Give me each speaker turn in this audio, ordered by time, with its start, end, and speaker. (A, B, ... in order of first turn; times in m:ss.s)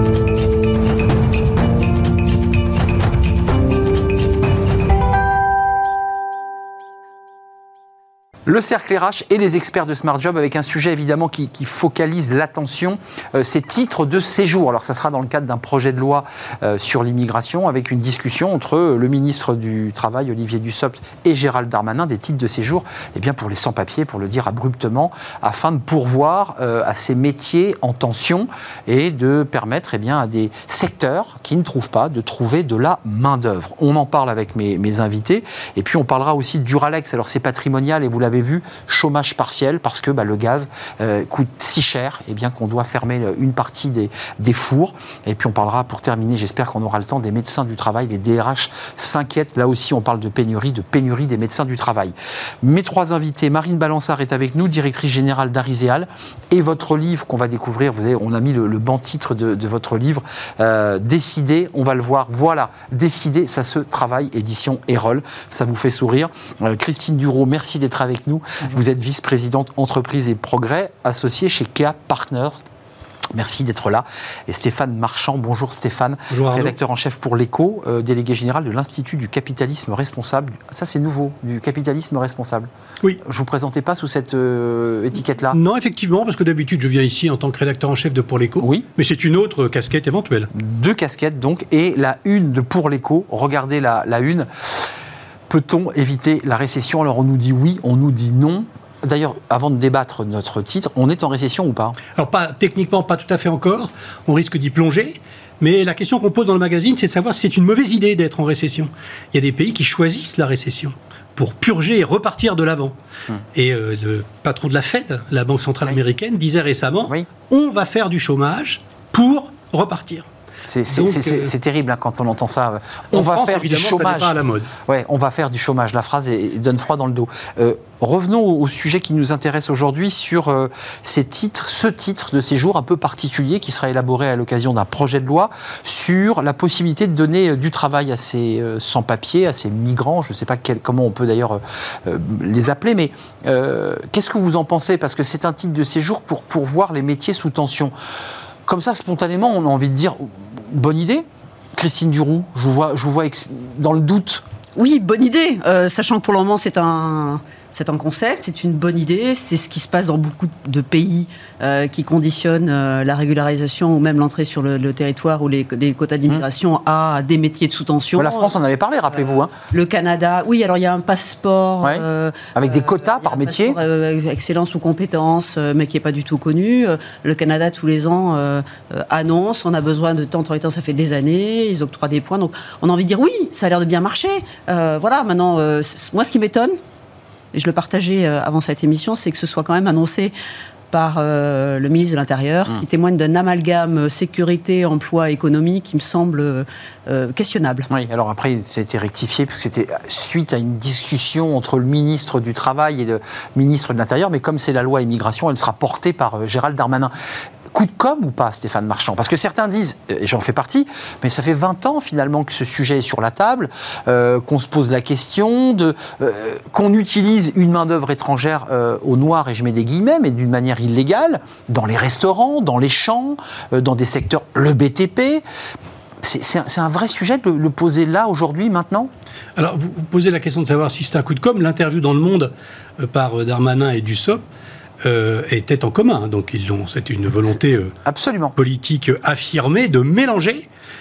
0:08.4-1:12.6 A
1:13.3-1:22.7 A
1:16.3-1:16.7 B
1:23.2-1:25.6 A
1:25.5-1:30.5 B
1:28.6-1:28.8 A
1:30.5-1:34.8 A
1:35.5-1:42.0 A
1:42.1-1:53.0 B
1:53.5-2:00.2 B
2:00.7-2:04.3 A
2:00.9-2:01.5 B
2:03.1-2:04.7 B
2:04.8-2:27.9 A
2:28.7-2:34.4 A
2:34.8-2:48.5 C
2:48.2-2:49.5 A
2:49.2-3:06.8 C
2:52.5-2:53.8 A
3:07.5-3:10.3 C
3:10.9-3:17.9 C
3:17.9-3:27.1 A
3:27.7-3:45.4 A
3:46.2-3:49.1 A
3:49.6-3:54.4 B
3:55.0-3:57.9 B
3:58.0-3:58.5 A
3:58.6-4:00.7 B